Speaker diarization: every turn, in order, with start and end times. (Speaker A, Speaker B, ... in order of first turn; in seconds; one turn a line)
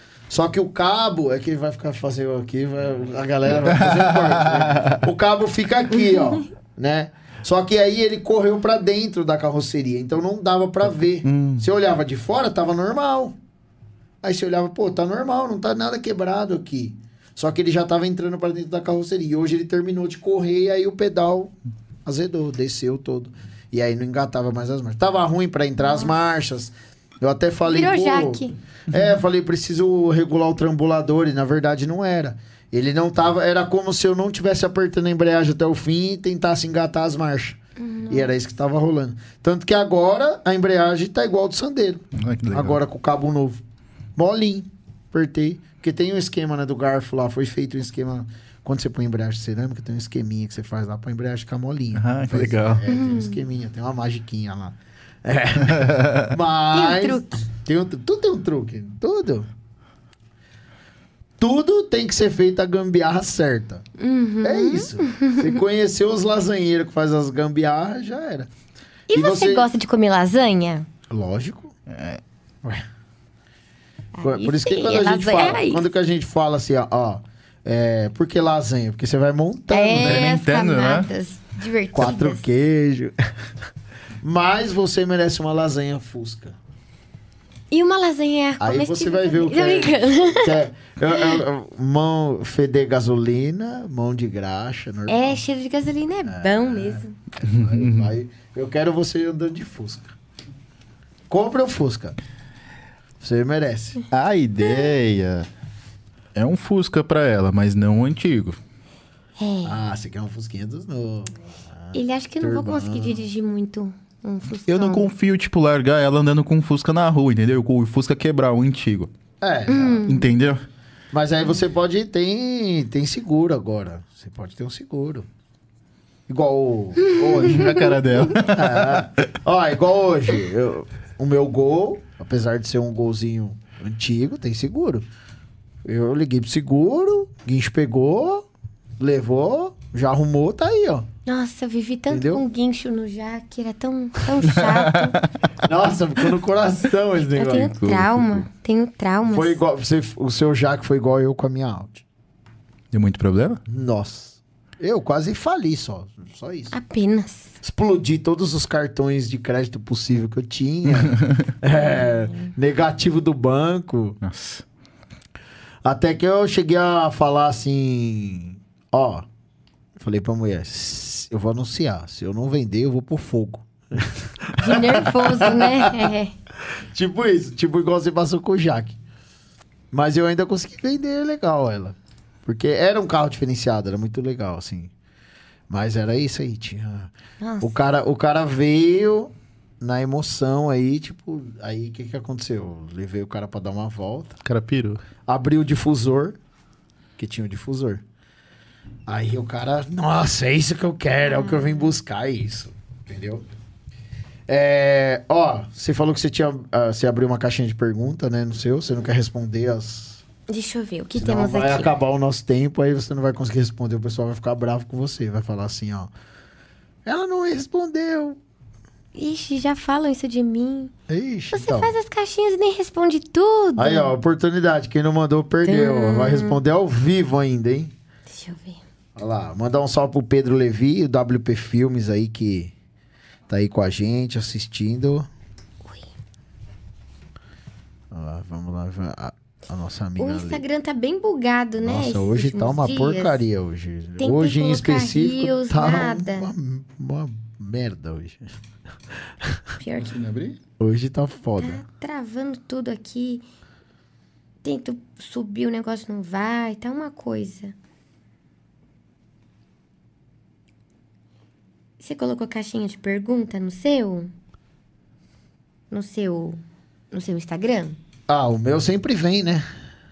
Speaker A: 0.3-13.4
Speaker B: 3.6-5.0
Speaker B: 11.2-11.6
Speaker A: 14.2-21.5
Speaker A: 22.1-37.6
Speaker C: 27.7-28.5
Speaker C: 37.8-38.3
Speaker A: 38.1-43.6
Speaker B: 42.1-42.8
Speaker A: 44.2-59.5
Speaker B: 52.0-52.8
Speaker C: 52.9-53.4
Speaker B: 55.7-56.3
Speaker C: 56.7-57.4
Speaker A: 61.4-63.8
Speaker C: 64.0-65.6
Speaker A: 64.4-68.5
Speaker C: 69.1-70.9
Speaker A: 69.1-69.7
Speaker A: 71.1-71.7
Speaker B: 71.9-72.2
Speaker C: 74.2-75.8
Speaker A: 74.2-80.3
Speaker C: 79.7-82.4
Speaker B: 79.9-81.1
Speaker A: 81.9-83.2
Speaker A: 84.2-86.6
Speaker C: 87.7-90.6
Speaker A: 88.6-95.4
Speaker C: 91.2-91.4
Speaker C: 95.1-97.1
Speaker A: 96.3-100.1
Speaker B: 97.4-98.1
Speaker A: 101.3-102.2
Speaker A: 103.2-104.0
Speaker B: 104.1-105.5
Speaker B: 106.3-108.6
Speaker C: 109.4-109.8
Speaker A: 109.6-113.2
Speaker C: 111.9-115.1
Speaker B: 114.7-119.1
Speaker A: 119.4-120.1
Speaker C: 119.7-120.2
Speaker B: 120.0-120.6
Speaker A: 121.1-125.3
Speaker A: 126.3-135.1
Speaker B: 127.2-129.2
Speaker A: 135.8-138.5
Speaker A: 139.0-141.1
Speaker C: 141.3-145.2
Speaker A: 142.1-142.4
Speaker B: 144.4-145.3
Speaker A: 145.6-147.7
Speaker C: 147.3-149.6
Speaker B: 147.6-148.5
Speaker A: 149.3-152.0
Speaker B: 152.9-153.6
Speaker A: 153.7-156.8
Speaker C: 156.7-157.5
Speaker A: 157.6-164.2
Speaker B: 161.1-161.4
Speaker B: 164.2-164.6
Speaker A: 165.8-169.2
Speaker A: 170.0-176.1
Speaker C: 174.6-176.3
Speaker A: 176.9-179.0
Speaker A: 179.9-184.9
Speaker A: 185.7-194.4
Speaker C: 187.4-187.7
Speaker B: 194.4-195.0
Speaker A: 195.3-196.4
Speaker A: 197.2-198.0
Speaker A: 199.1-203.4
Speaker C: 201.3-201.9
Speaker A: 204.5-210.2
Speaker C: 210.5-211.9
Speaker A: 211.2-216.1
Speaker A: 217.1-218.4
Speaker C: 219.2-220.9
Speaker A: 221.1-221.9
Speaker C: 221.5-224.1
Speaker A: 223.8-227.9
Speaker C: 225.7-226.6
Speaker C: 228.3-228.8
Speaker A: 229.2-232.7
Speaker A: 233.5-235.3
Speaker A: 238.1-240.6
Speaker C: 240.2-243.4
Speaker A: 241.8-248.5
Speaker C: 244.2-246.5
Speaker C: 249.8-250.1
Speaker B: 250.0-250.6
Speaker A: 250.8-251.8
Speaker C: 251.6-253.4
Speaker C: 254.6-257.7
Speaker C: 262.0-264.3
Speaker C: 265.9-266.6
Speaker C: 267.1-268.0
Speaker A: 268.3-269.6